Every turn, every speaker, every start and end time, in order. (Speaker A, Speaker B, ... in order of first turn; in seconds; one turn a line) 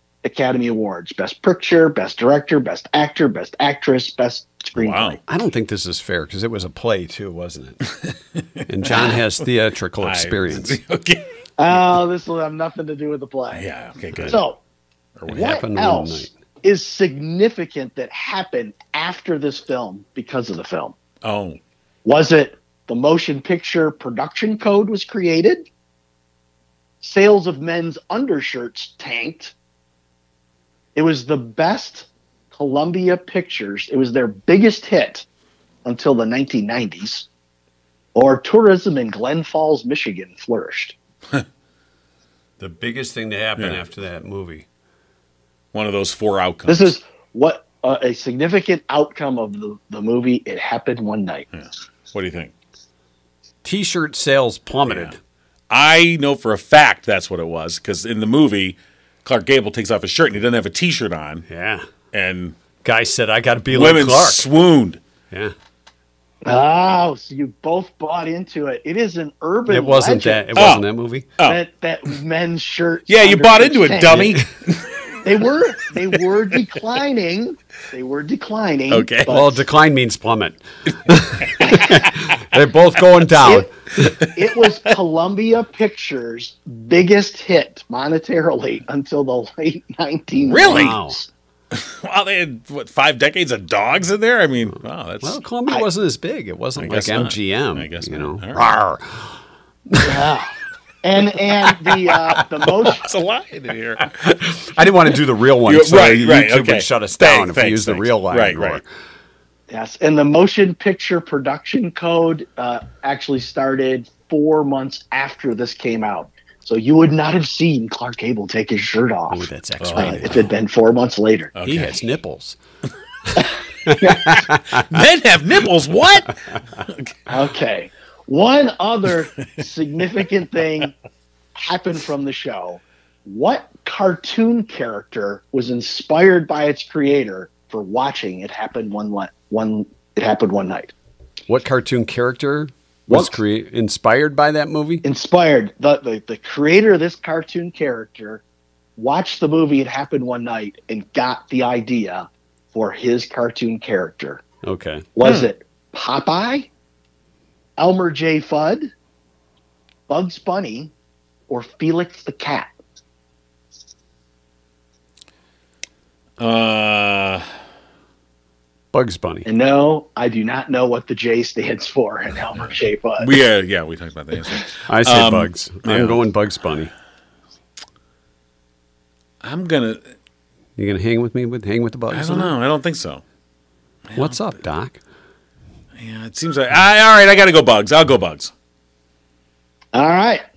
Speaker A: 0.2-5.2
Speaker B: 4.7-5.2
Speaker C: 5.3-7.9
Speaker C: 8.7-10.8
Speaker B: 8.8-9.2
Speaker B: 10.0-11.9
Speaker A: 11.6-13.6
Speaker B: 13.5-14.4
Speaker A: 14.2-14.6
Speaker C: 15.3-16.3
Speaker A: 15.3-20.9
Speaker B: 21.2-21.6
Speaker A: 22.0-25.6
Speaker A: 27.0-29.5
Speaker A: 30.9-35.2
Speaker A: 35.8-37.3
Speaker A: 38.1-41.0
Speaker C: 42.6-44.6
Speaker B: 45.7-46.9
Speaker A: 46.7-51.5
Speaker B: 51.5-52.5
Speaker C: 53.6-55.2
Speaker B: 54.9-55.1
Speaker B: 55.7-61.4
Speaker C: 61.5-61.8
Speaker B: 62.1-62.6
Speaker C: 62.8-64.5
Speaker B: 63.7-65.0
Speaker A: 66.4-70.5
Speaker C: 69.7-71.3
Speaker B: 70.5-70.8
Speaker A: 71.4-74.4
Speaker B: 73.1-75.2
Speaker A: 75.2-79.6
Speaker B: 78.9-79.4
Speaker C: 79.2-83.7
Speaker A: 81.6-82.0
Speaker A: 83.4-91.2
Speaker B: 84.0-84.9
Speaker B: 90.4-91.0
Speaker C: 90.7-91.2
Speaker B: 91.7-95.4
Speaker C: 95.2-99.3
Speaker B: 96.8-98.6
Speaker C: 99.9-100.2
Speaker A: 100.0-103.1
Speaker B: 102.3-104.4
Speaker C: 104.4-108.8
Speaker B: 105.7-108.8
Speaker A: 109.7-121.5
Speaker C: 119.3-120.5
Speaker B: 119.8-120.2
Speaker B: 121.5-122.0
Speaker C: 121.6-122.6
Speaker C: 123.8-125.0
Speaker B: 124.4-127.1
Speaker A: 127.3-130.9
Speaker A: 131.6-140.9
Speaker C: 141.5-145.0
Speaker A: 143.1-143.4
Speaker A: 145.0-148.4
Speaker A: 149.0-154.4
Speaker C: 154.6-155.1
Speaker A: 155.2-156.7
Speaker B: 155.2-155.4
Speaker A: 157.8-158.9
Speaker A: 160.1-160.9
Speaker A: 161.5-162.7
Speaker B: 166.4-167.4
Speaker C: 168.9-169.5
Speaker A: 169.4-173.3
Speaker B: 173.2-176.2
Speaker C: 174.9-176.9
Speaker B: 179.4-180.0
Speaker C: 180.8-182.5
Speaker B: 182.1-183.2
Speaker B: 184.1-184.3
Speaker C: 184.1-185.0
Speaker B: 185.9-188.5
Speaker A: 189.9-190.4